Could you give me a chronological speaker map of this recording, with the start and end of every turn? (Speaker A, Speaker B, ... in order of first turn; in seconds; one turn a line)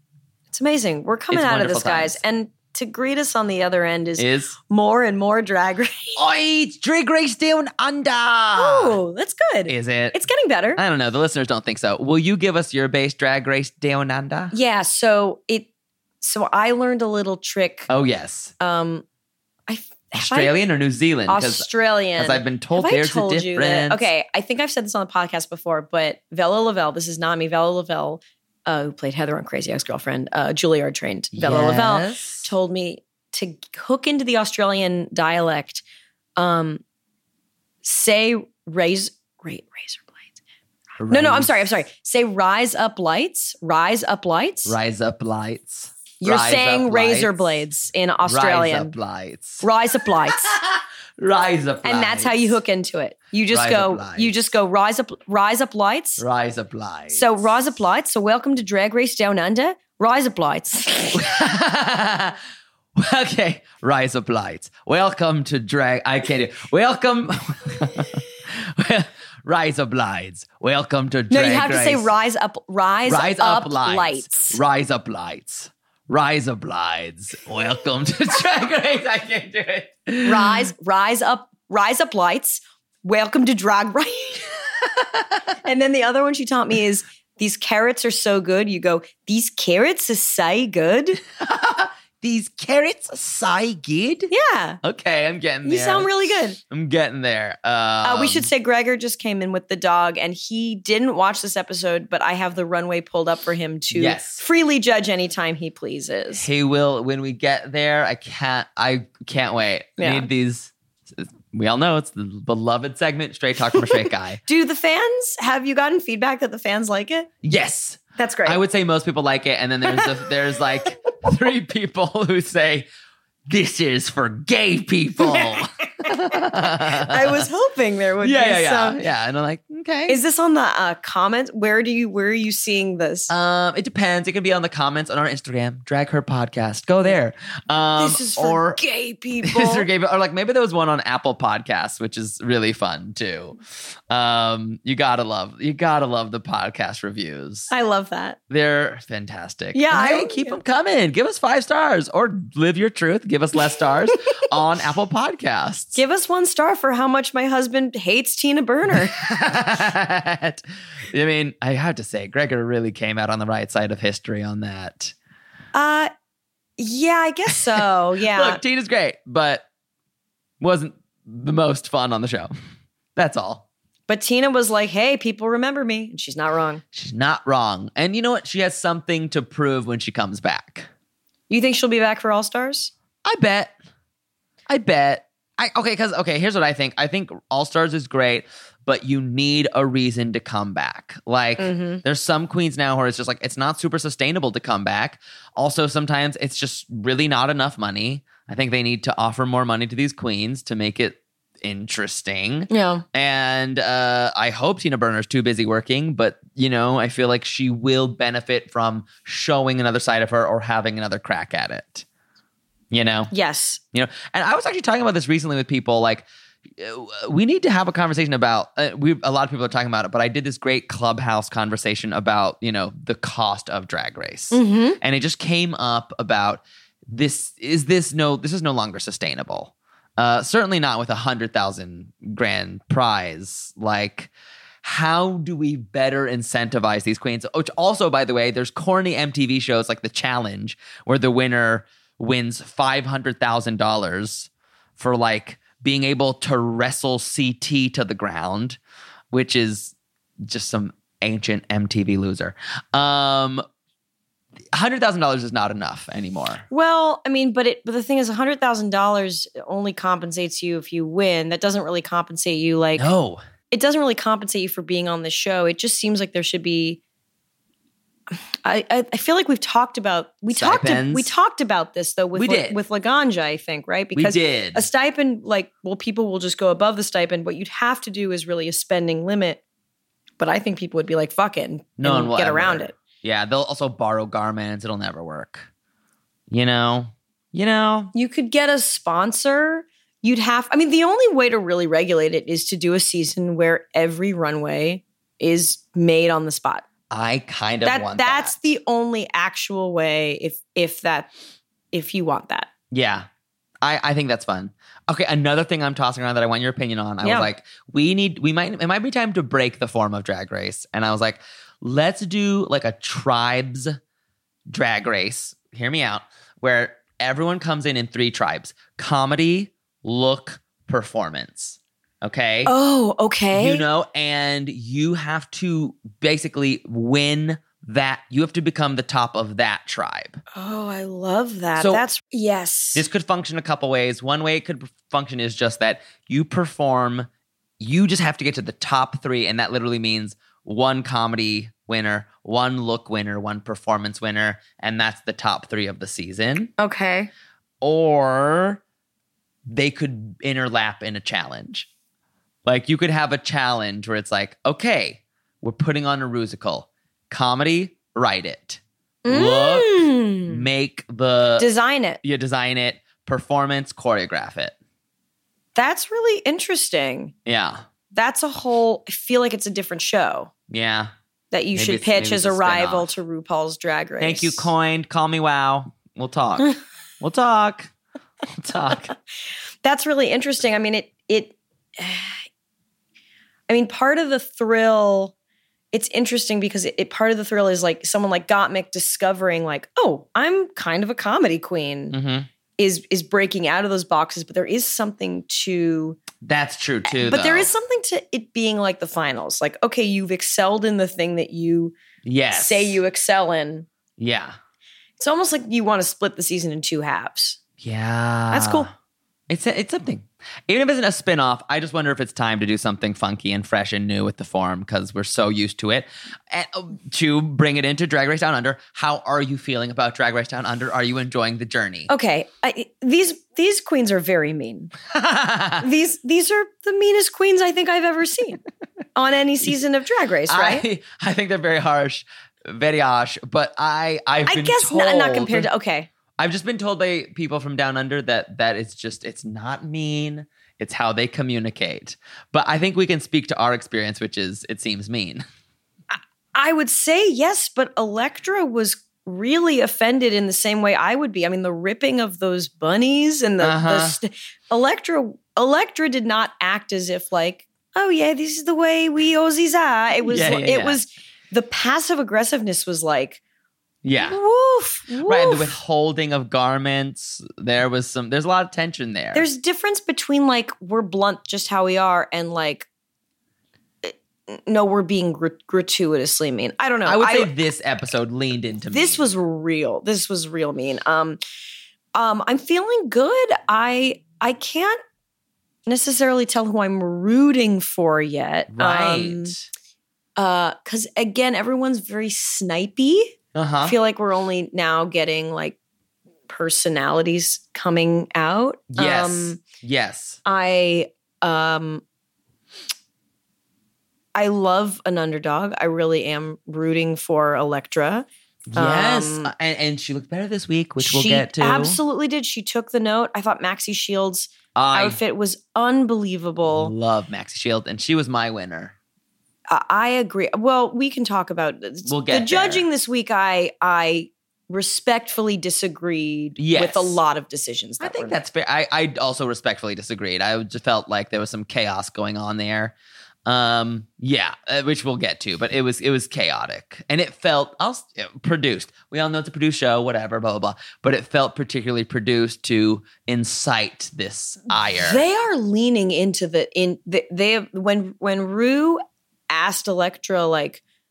Speaker A: 0.5-6.2
Speaker B: 1.3-2.2
Speaker B: 4.2-4.5
Speaker B: 6.2-9.0
Speaker A: 8.6-10.8
Speaker B: 9.7-10.2
Speaker B: 10.8-14.5
Speaker A: 14.5-15.7
Speaker A: 16.2-17.9
Speaker B: 17.9-18.5
Speaker A: 18.6-19.0
Speaker A: 19.7-20.6
Speaker B: 20.1-24.1
Speaker A: 21.3-35.8
Speaker B: 31.3-32.5
Speaker A: 36.4-36.8
Speaker A: 37.8-40.3
Speaker B: 41.0-41.6
Speaker A: 41.1-44.8
Speaker B: 44.6-47.3
Speaker A: 46.2-48.9
Speaker B: 48.2-49.6
Speaker A: 49.6-50.5
Speaker B: 50.4-52.5
Speaker A: 51.8-56.2
Speaker B: 53.5-54.3
Speaker B: 56.2-57.4
Speaker A: 57.1-61.2
Speaker B: 61.1-62.4
Speaker B: 63.0-72.1
Speaker A: 71.3-74.6
Speaker B: 73.1-80.6
Speaker A: 80.2-84.5
Speaker B: 84.8-85.4
Speaker A: 85.6-91.2
Speaker B: 91.4-94.3
Speaker A: 94.3-94.8
Speaker B: 94.8-98.5
Speaker A: 95.6-96.6
Speaker A: 98.0-106.5
Speaker B: 103.9-104.4
Speaker B: 106.4-114.4
Speaker A: 110.0-110.3
Speaker A: 114.5-117.3
Speaker B: 117.4-122.9
Speaker A: 118.2-118.6
Speaker B: 123.5-127.5
Speaker A: 126.0-129.0
Speaker B: 128.2-130.2
Speaker A: 130.1-133.3
Speaker B: 133.3-138.8
Speaker A: 138.0-139.9
Speaker B: 139.4-143.6
Speaker B: 144.1-147.7
Speaker A: 147.7-148.4
Speaker B: 148.5-156.0
Speaker A: 149.7-150.6
Speaker A: 155.9-159.2
Speaker B: 158.9-165.1
Speaker A: 165.7-166.1
Speaker A: 166.8-168.6
Speaker B: 168.3-169.6
Speaker B: 170.6-172.5
Speaker B: 173.2-173.6
Speaker A: 174.1-176.8
Speaker B: 176.9-180.9
Speaker A: 181.5-182.9
Speaker B: 183.2-183.7
Speaker B: 184.7-212.1
Speaker A: 191.6-192.0
Speaker A: 202.7-203.0
Speaker B: 212.9-213.3
Speaker A: 213.3-213.8
Speaker B: 213.9-234.3
Speaker A: 224.5-225.0
Speaker B: 234.8-248.8
Speaker B: 249.3-253.6
Speaker B: 254.7-256.6
Speaker A: 256.7-263.1
Speaker B: 262.9-263.4
Speaker A: 263.7-267.0
Speaker A: 268.6-279.6
Speaker B: 270.5-271.3
Speaker B: 272.4-272.8
Speaker B: 274.1-274.9
Speaker A: 280.4-282.9
Speaker B: 282.0-285.7
Speaker B: 286.5-288.1
Speaker A: 288.1-296.9
Speaker B: 297.1-298.6
Speaker A: 297.8-301.3
Speaker A: 301.9-302.7
Speaker B: 302.9-303.3
Speaker B: 303.8-314.0
Speaker A: 307.2-307.5
Speaker B: 314.7-322.7
Speaker A: 322.6-323.9
Speaker B: 323.5-330.4
Speaker A: 330.5-333.0
Speaker B: 331.8-332.0
Speaker B: 332.9-337.3
Speaker B: 337.8-346.7
Speaker A: 346.8-347.3
Speaker B: 347.8-348.8
Speaker B: 349.7-351.9
Speaker B: 352.6-361.7
Speaker A: 359.2-360.6
Speaker A: 361.6-362.2
Speaker B: 362.2-364.8
Speaker A: 365.8-367.3
Speaker B: 367.4-367.8
Speaker A: 368.1-370.5
Speaker B: 370.7-371.1
Speaker A: 371.5-374.7
Speaker B: 371.8-373.1
Speaker B: 374.2-377.9
Speaker B: 378.5-379.1
Speaker A: 379.8-382.4
Speaker A: 383.7-385.3
Speaker A: 385.9-392.2
Speaker B: 392.1-392.5
Speaker A: 392.8-396.2
Speaker B: 396.4-397.7
Speaker A: 397.1-401.9
Speaker B: 402.2-403.0
Speaker A: 402.5-403.9
Speaker B: 404.2-404.6
Speaker A: 405.2-407.6
Speaker B: 407.8-408.9
Speaker A: 408.5-408.9
Speaker B: 409.5-422.1
Speaker A: 422.1-424.9
Speaker B: 425.1-425.9
Speaker A: 425.8-428.6
Speaker A: 429.1-430.9
Speaker B: 430.5-435.7
Speaker A: 434.4-436.1
Speaker B: 436.4-445.4
Speaker A: 446.5-463.4
Speaker B: 453.6-454.1
Speaker B: 460.2-461.0
Speaker B: 464.0-464.4
Speaker A: 464.2-465.8
Speaker B: 465.2-469.4
Speaker A: 469.3-472.9
Speaker A: 474.0-477.5
Speaker B: 477.0-479.3
Speaker A: 478.9-481.4
Speaker A: 482.1-485.0
Speaker A: 485.9-489.5
Speaker B: 488.7-489.6
Speaker A: 490.4-495.8
Speaker B: 493.5-493.9
Speaker A: 496.5-499.6
Speaker B: 498.9-500.4
Speaker A: 500.4-502.0
Speaker A: 504.4-509.5
Speaker B: 508.7-512.0
Speaker A: 511.0-516.9
Speaker B: 514.8-515.2
Speaker B: 516.6-518.9
Speaker A: 519.7-528.4
Speaker B: 522.0-522.9
Speaker B: 526.6-527.2
Speaker B: 528.0-532.9
Speaker B: 533.5-545.2
Speaker A: 544.8-550.8